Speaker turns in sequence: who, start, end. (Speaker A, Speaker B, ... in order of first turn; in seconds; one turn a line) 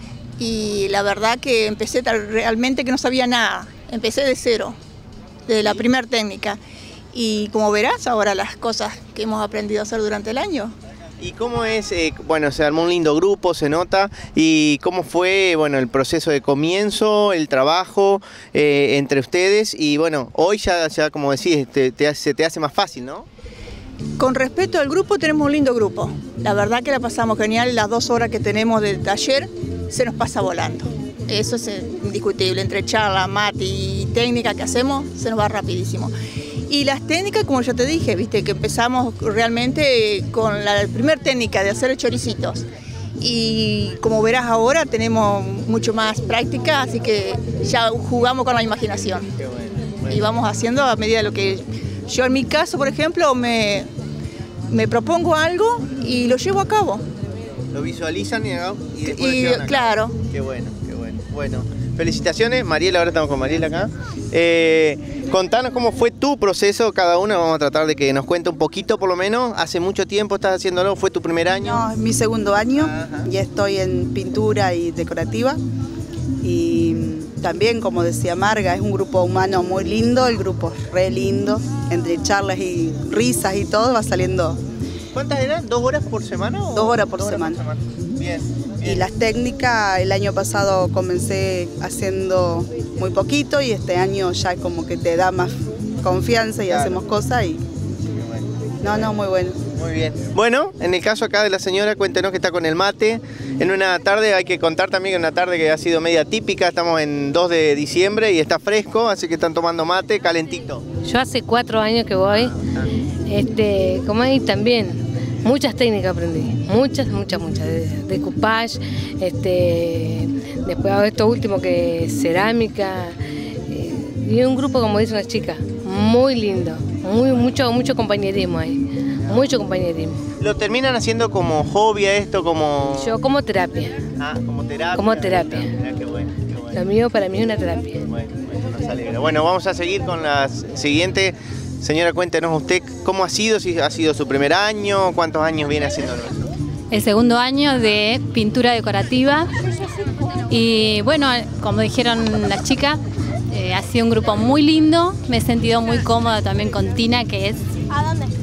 Speaker A: 0.4-4.7
Speaker A: 5.5-6.6
Speaker A: 7.1-10.7
Speaker B: 11.2-23.2
Speaker A: 24.2-36.1
Speaker A: 36.7-42.6
Speaker A: 43.2-49.3
Speaker B: 49.4-50.2
Speaker A: 50.0-53.9
Speaker A: 54.7-57.0
Speaker B: 57.7-71.8
Speaker A: 59.0-60.2
Speaker C: 71.6-75.6
Speaker B: 72.7-73.2
Speaker C: 76.4-84.6
Speaker B: 85.1-89.1
Speaker C: 86.7-87.6
Speaker C: 88.8-95.5
Speaker C: 96.0-97.6
Speaker B: 96.6-97.0
Speaker B: 98.2-99.1
Speaker C: 98.8-99.6
Speaker B: 99.8-110.8
Speaker D: 111.0-112.5
Speaker B: 112.3-112.9
Speaker D: 113.3-123.1
Speaker D: 123.7-130.2
Speaker B: 130.4-133.2
Speaker D: 132.9-134.0
Speaker B: 134.2-136.8
Speaker D: 134.9-135.7
Speaker D: 136.7-138.0
Speaker B: 138.1-146.5
Speaker E: 146.9-149.4
Speaker E: 150.5-152.9
Speaker E: 153.5-157.5